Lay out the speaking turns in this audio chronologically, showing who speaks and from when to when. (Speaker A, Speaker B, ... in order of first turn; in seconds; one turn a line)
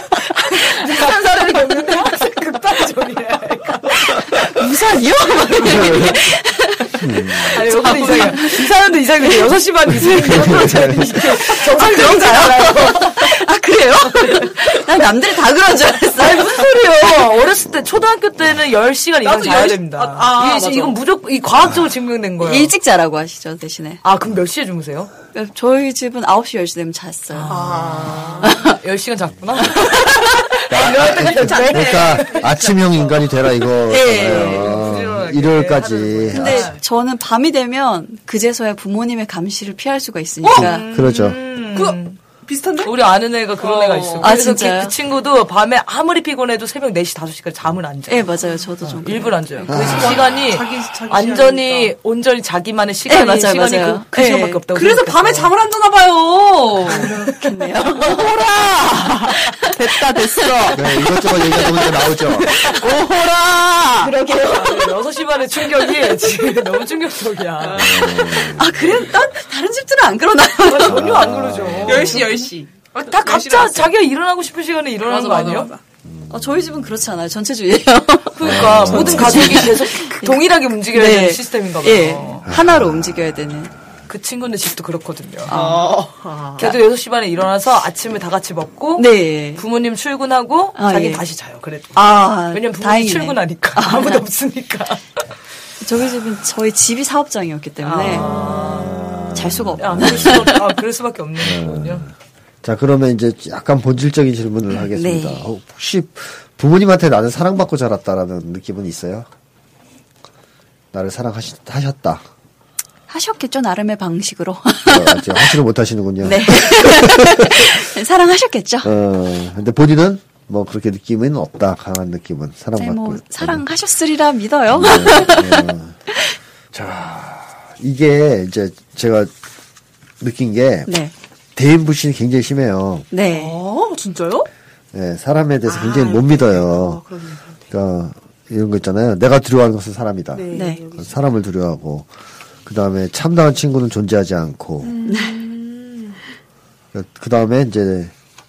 Speaker A: 0.5-4.5
Speaker B: 0.8-2.2
Speaker C: 4.3-8.6
Speaker A: 5.6-6.1
Speaker D: 5.7-6.1
Speaker D: 7.0-7.6
Speaker A: 7.4-13.3
Speaker B: 7.6-8.7
Speaker B: 10.0-12.9
Speaker D: 10.1-11.1
Speaker C: 11.7-16.7
Speaker A: 16.2-22.7
Speaker B: 19.2-21.0
Speaker C: 22.4-24.0
Speaker A: 24.0-25.1
Speaker C: 25.3-27.6
Speaker A: 27.3-32.8
Speaker B: 27.5-28.6
Speaker C: 28.4-28.8
Speaker D: 30.7-36.7
Speaker B: 30.8-33.2
Speaker C: 33.9-34.7
Speaker A: 34.2-36.8
Speaker C: 36.3-40.9
Speaker B: 40.4-42.9
Speaker D: 40.6-41.4
Speaker A: 41.0-42.2
Speaker A: 42.8-48.3
Speaker B: 43.6-44.4
Speaker C: 44.2-44.9
Speaker C: 48.1-49.7
Speaker A: 48.8-55.5
Speaker D: 49.7-50.1
Speaker B: 49.7-52.0
Speaker C: 53.1-54.6
Speaker B: 54.7-57.3
Speaker C: 56.9-58.3
Speaker B: 58.0-64.1
Speaker C: 59.3-60.5
Speaker D: 60.7-62.6
Speaker C: 64.0-65.0
Speaker A: 64.3-68.1
Speaker B: 67.6-68.5
Speaker D: 67.8-68.8
Speaker C: 68.3-71.1
Speaker A: 70.7-75.7
Speaker D: 70.9-72.2
Speaker B: 71.0-73.9
Speaker B: 75.0-75.8
Speaker D: 76.1-76.9
Speaker C: 76.3-83.7
Speaker A: 78.4-82.5
Speaker D: 78.4-79.6
Speaker B: 78.9-79.7
Speaker D: 82.5-83.1
Speaker A: 84.1-85.5
Speaker C: 85.5-86.0
Speaker B: 85.5-86.7
Speaker A: 86.6-95.0
Speaker C: 89.0-89.6
Speaker C: 90.8-91.2
Speaker C: 92.0-94.2
Speaker C: 95.8-98.5
Speaker A: 97.8-99.0
Speaker D: 98.3-100.5
Speaker C: 99.3-100.6
Speaker A: 99.8-102.0
Speaker D: 101.4-102.1
Speaker D: 102.6-109.3
Speaker C: 104.9-105.4
Speaker D: 110.9-112.3
Speaker C: 113.1-115.6
Speaker D: 114.9-117.8
Speaker C: 116.2-118.9
Speaker D: 118.8-123.6
Speaker C: 122.8-125.7
Speaker D: 124.7-126.0
Speaker D: 126.7-129.3
Speaker D: 130.2-130.9
Speaker C: 130.9-131.1
Speaker D: 131.6-133.1
Speaker C: 133.1-133.6
Speaker B: 133.2-134.5
Speaker D: 134.9-137.1
Speaker B: 135.7-137.6
Speaker D: 137.7-142.1
Speaker B: 140.3-141.3
Speaker C: 140.5-140.8
Speaker D: 142.7-145.0
Speaker B: 144.8-146.2
Speaker C: 145.1-145.4
Speaker D: 146.9-148.1